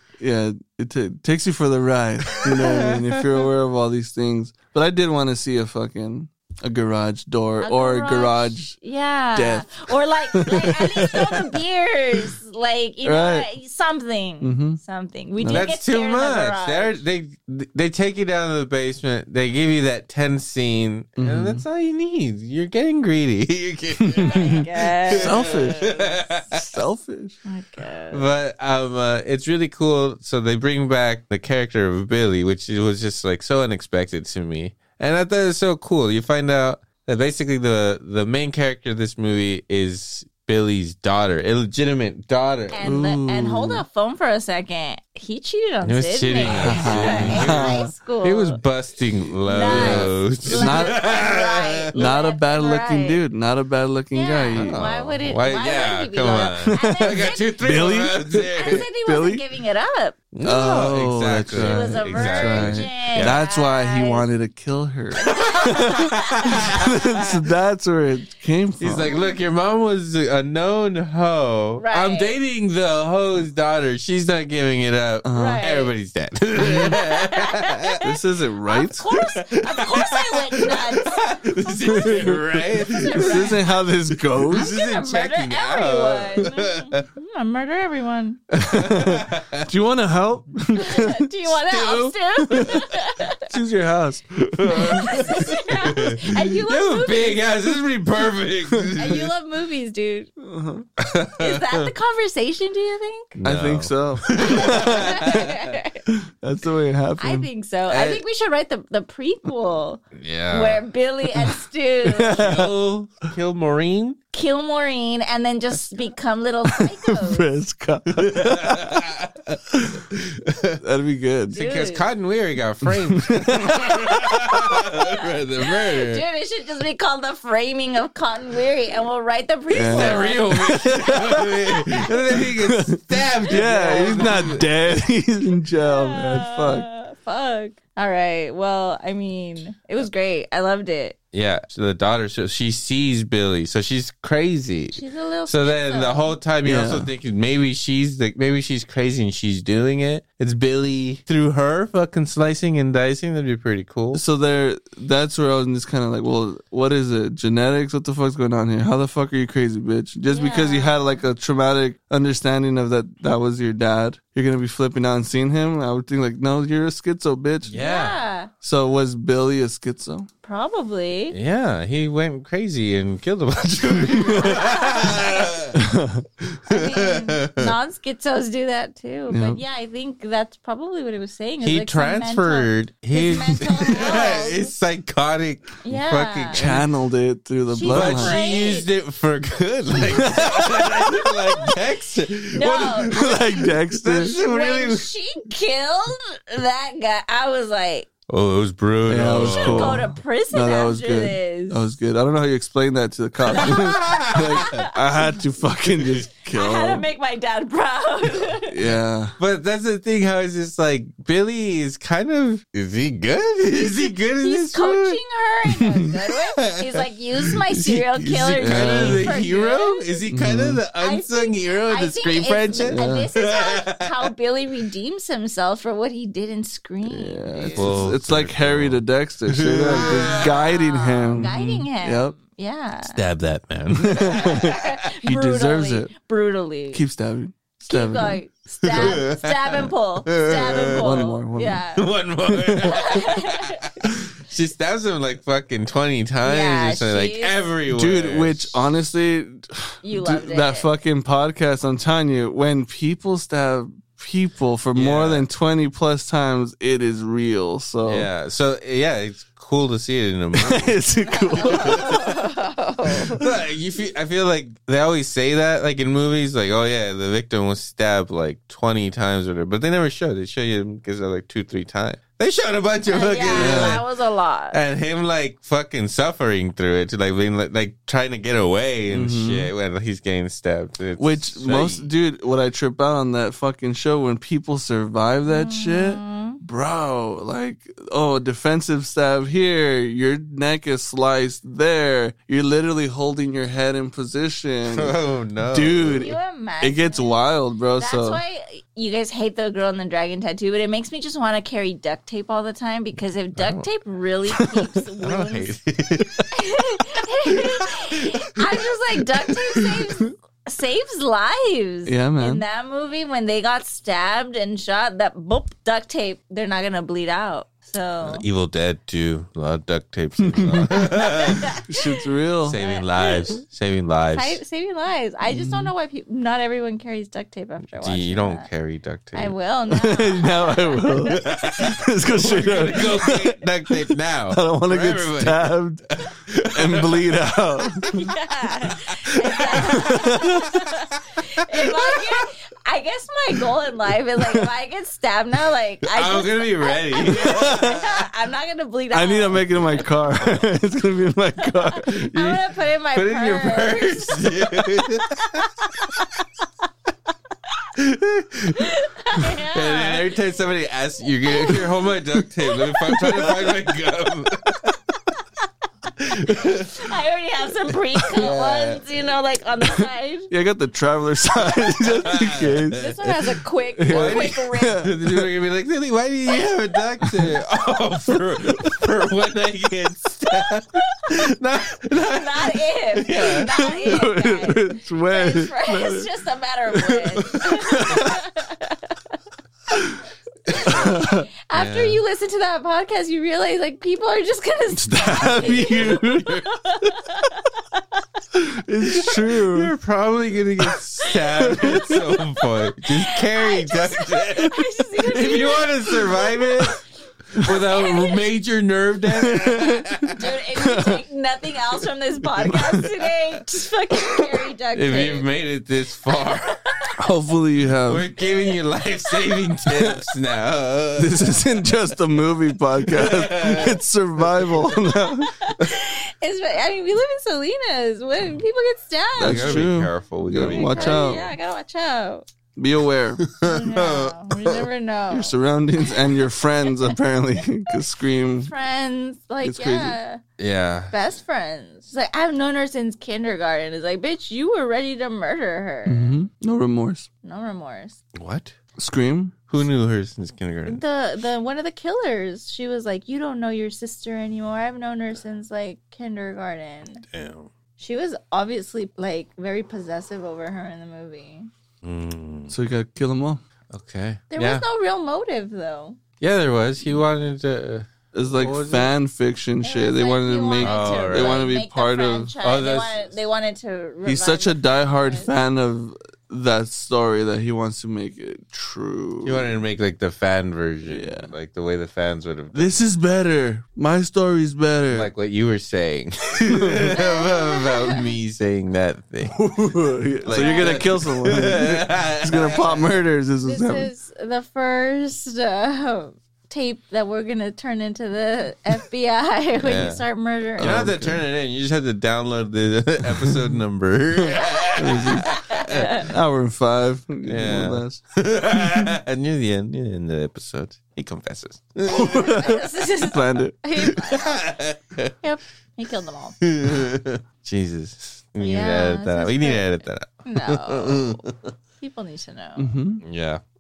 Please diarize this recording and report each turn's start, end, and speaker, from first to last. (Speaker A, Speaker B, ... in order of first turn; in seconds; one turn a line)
Speaker A: 0.2-8.8
Speaker B: 2.4-3.4
Speaker C: 7.6-17.0
Speaker A: 9.3-11.6
Speaker A: 13.1-13.5
Speaker A: 14.4-14.8
Speaker A: 15.4-15.7
Speaker B: 15.5-26.8
Speaker A: 21.2-21.6
Speaker A: 24.0-25.9
Speaker C: 24.2-26.4
Speaker A: 26.5-27.4
Speaker C: 27.5-28.3
Speaker B: 28.1-42.8
Speaker C: 42.7-48.6
Speaker A: 42.8-43.8
Speaker B: 45.8-51.9
Speaker A: 46.4-47.9
Speaker C: 49.5-53.2
Speaker A: 49.6-51.0
Speaker A: 51.9-54.8
Speaker C: 54.1-60.2
Speaker B: 54.6-58.9
Speaker A: 56.6-59.4
Speaker B: 60.3-63.4
Speaker A: 60.4-69.1
Speaker C: 61.5-64.3
Speaker C: 65.2-66.5
Speaker B: 65.4-67.3
Speaker B: 68.8-78.0
Speaker C: 71.8-72.4
Speaker A: 75.2-75.6
Speaker C: 75.3-75.9
Speaker A: 76.6-76.9
Speaker C: 76.6-78.1
Speaker A: 78.0-79.1
Speaker C: 78.7-83.8
Speaker B: 79.2-83.6
Speaker A: 81.8-84.7
Speaker B: 84.5-87.1
Speaker C: 84.5-88.4
Speaker A: 88.6-91.2
Speaker B: 88.6-89.7
Speaker C: 90.8-93.5
Speaker B: 91.6-92.8
Speaker A: 92.5-92.9
Speaker A: 93.4-95.0
Speaker B: 94.6-99.3
Speaker C: 94.7-97.5
Speaker C: 99.0-100.3
Speaker A: 100.4-100.9
Speaker B: 101.0-101.9
Speaker C: 101.4-103.3
Speaker B: 103.3-105.7
Speaker A: 103.4-105.5
Speaker C: 104.4-106.0
Speaker A: 106.1-107.5
Speaker C: 107.2-112.5
Speaker B: 107.9-108.2
Speaker B: 110.2-110.8
Speaker A: 112.1-112.7
Speaker B: 112.3-114.2
Speaker C: 114.3-117.5
Speaker A: 116.7-119.1
Speaker B: 118.2-119.5
Speaker A: 119.7-120.0
Speaker B: 120.1-120.8
Speaker A: 120.8-121.6
Speaker B: 121.5-126.2
Speaker C: 121.5-122.1
Speaker A: 122.8-123.9
Speaker C: 123.9-131.5
Speaker A: 129.7-136.9
Speaker B: 129.9-134.7
Speaker C: 133.5-134.2
Speaker C: 135.8-141.2
Speaker B: 141.3-154.2
Speaker C: 144.9-146.4
Speaker A: 146.7-147.1
Speaker A: 154.1-167.8
Speaker C: 160.3-161.2
Speaker B: 167.7-168.2
Speaker C: 167.8-168.5
Speaker A: 168.6-170.3
Speaker C: 170.4-171.4
Speaker B: 171.3-175.8
Speaker A: 173.8-174.6
Speaker C: 174.3-175.6
Speaker A: 175.7-176.3
Speaker C: 176.7-184.7
Speaker B: 176.7-177.8
Speaker A: 179.3-179.6
Speaker B: 181.6-186.9
Speaker C: 185.8-186.6
Speaker A: 186.5-188.4
Speaker C: 187.7-188.9
Speaker B: 187.8-195.1
Speaker A: 190.2-190.9
Speaker C: 192.5-193.2
Speaker A: 193.1-194.3
Speaker C: 194.2-198.1
Speaker B: 198.3-200.1
Speaker A: 199.1-207.1
Speaker C: 199.5-201.9
Speaker C: 203.5-204.0
Speaker B: 203.6-204.9
Speaker C: 204.6-204.9
Speaker C: 206.5-208.8
Speaker A: 208.6-209.4
Speaker B: 209.4-224.3
Speaker C: 213.9-220.2
Speaker A: 218.6-219.3
Speaker A: 220.3-220.8
Speaker C: 221.0-228.1
Speaker A: 222.9-223.3
Speaker A: 227.1-232.3
Speaker B: 227.7-230.4
Speaker C: 230.1-233.2
Speaker B: 233.0-234.9
Speaker A: 234.0-236.1
Speaker C: 234.2-237.0
Speaker A: 236.9-239.2
Speaker C: 237.9-242.1
Speaker B: 238.8-241.3
Speaker A: 241.0-241.8
Speaker B: 241.9-248.9
Speaker A: 242.6-242.9
Speaker C: 242.8-243.9
Speaker C: 246.4-247.7
Speaker A: 247.9-258.3
Speaker C: 250.0-250.9
Speaker B: 254.9-255.5
Speaker B: 258.1-261.0
Speaker A: 260.6-262.3
Speaker C: 261.2-263.4
Speaker B: 261.6-262.3
Speaker A: 263.1-263.4
Speaker B: 263.3-274.1
Speaker C: 273.1-274.8
Speaker A: 273.5-274.0
Speaker B: 274.7-282.1
Speaker A: 279.1-279.7
Speaker A: 281.2-295.2
Speaker C: 285.5-286.6
Speaker B: 294.9-296.3
Speaker A: 295.7-298.4
Speaker C: 295.9-297.4
Speaker C: 298.0-305.8
Speaker B: 303.6-303.9
Speaker A: 304.5-304.9
Speaker B: 305.2-306.5
Speaker C: 306.5-318.5
Speaker B: 307.5-308.8
Speaker B: 309.5-310.0
Speaker A: 312.1-312.6
Speaker B: 318.2-321.7
Speaker A: 320.6-320.9
Speaker C: 320.9-322.1
Speaker A: 321.9-322.8
Speaker B: 322.6-324.6
Speaker C: 322.7-323.6
Speaker C: 324.3-328.7
Speaker A: 325.5-325.9
Speaker B: 328.0-329.5
Speaker C: 329.3-332.0
Speaker A: 329.9-336.0
Speaker B: 331.3-337.5
Speaker A: 336.7-338.3
Speaker C: 338.0-350.1
Speaker B: 338.9-340.9
Speaker A: 339.7-340.7
Speaker B: 341.8-342.4
Speaker A: 344.4-344.6
Speaker B: 346.0-348.3
Speaker A: 347.4-347.9
Speaker A: 349.1-352.2
Speaker C: 351.6-355.0
Speaker B: 352.3-356.2
Speaker B: 358.0-358.9
Speaker C: 358.8-360.3
Speaker B: 359.7-365.0
Speaker C: 361.5-362.1
Speaker C: 362.7-363.5
Speaker B: 366.2-367.1
Speaker C: 366.7-370.5
Speaker B: 368.3-369.1
Speaker A: 370.5-373.1
Speaker B: 372.1-373.3
Speaker C: 373.0-375.1
Speaker A: 374.0-375.5
Speaker B: 374.1-384.3
Speaker A: 378.6-378.9
Speaker C: 382.1-389.2
Speaker A: 383.7-386.3
Speaker A: 386.9-388.4
Speaker A: 389.9-390.2
Speaker B: 390.7-391.1
Speaker C: 390.7-398.0
Speaker A: 390.8-391.5
Speaker B: 391.7-392.2
Speaker A: 394.9-396.6
Speaker A: 398.5-399.9
Speaker B: 399.2-407.0
Speaker C: 401.2-406.9
Speaker B: 407.6-410.4
Speaker C: 407.6-408.4
Speaker A: 409.4-410.1
Speaker C: 410.3-415.5
Speaker A: 410.8-411.2
Speaker A: 412.6-413.2
Speaker B: 414.9-416.9
Speaker A: 417.2-418.2
Speaker B: 418.1-421.6
Speaker C: 419.3-419.6
Speaker A: 421.2-425.6
Speaker B: 423.1-424.0
Speaker C: 425.0-429.8
Speaker B: 429.4-431.6
Speaker A: 429.4-431.4
Speaker C: 430.6-432.5
Speaker A: 432.8-433.4
Speaker B: 433.4-434.9
Speaker C: 433.6-435.5
Speaker A: 435.3-438.7
Speaker C: 438.7-440.4
Speaker A: 439.6-440.2
Speaker B: 440.6-441.1
Speaker C: 441.1-446.4
Speaker A: 446.1-447.3
Speaker C: 447.4-448.2
Speaker B: 448.4-448.7
Speaker A: 449.0-449.6
Speaker B: 449.7-451.0
Speaker C: 450.9-457.2
Speaker B: 457.3-457.7
Speaker C: 458.0-461.7
Speaker B: 462.0-462.7
Speaker A: 462.7-463.6
Speaker B: 463.9-464.8
Speaker C: 464.5-466.2
Speaker B: 466.4-469.1
Speaker A: 468.3-472.5
Speaker C: 469.8-475.5
Speaker B: 470.8-471.7
Speaker B: 472.6-473.3
Speaker A: 474.2-479.7
Speaker B: 479.4-483.0
Speaker A: 481.1-481.5
Speaker A: 482.7-485.3
Speaker B: 485.1-489.8
Speaker A: 486.6-487.0
Speaker C: 487.1-488.3
Speaker A: 489.6-494.1
Speaker B: 490.4-493.2
Speaker C: 490.5-491.2
Speaker C: 493.7-501.1
Speaker B: 499.8-500.2
Speaker B: 500.8-506.3
Speaker A: 500.8-501.4
Speaker A: 505.0-508.2
Speaker C: 505.5-506.3
Speaker B: 507.4-512.7
Speaker A: 508.8-509.1
Speaker A: 512.1-514.2
Speaker C: 512.3-514.8
Speaker B: 514.2-515.3
Speaker C: 515.4-516.6
Speaker B: 516.6-521.7
Speaker C: 518.6-521.5
Speaker C: 522.0-522.9
Speaker A: 522.8-523.2
Speaker B: 523.2-523.6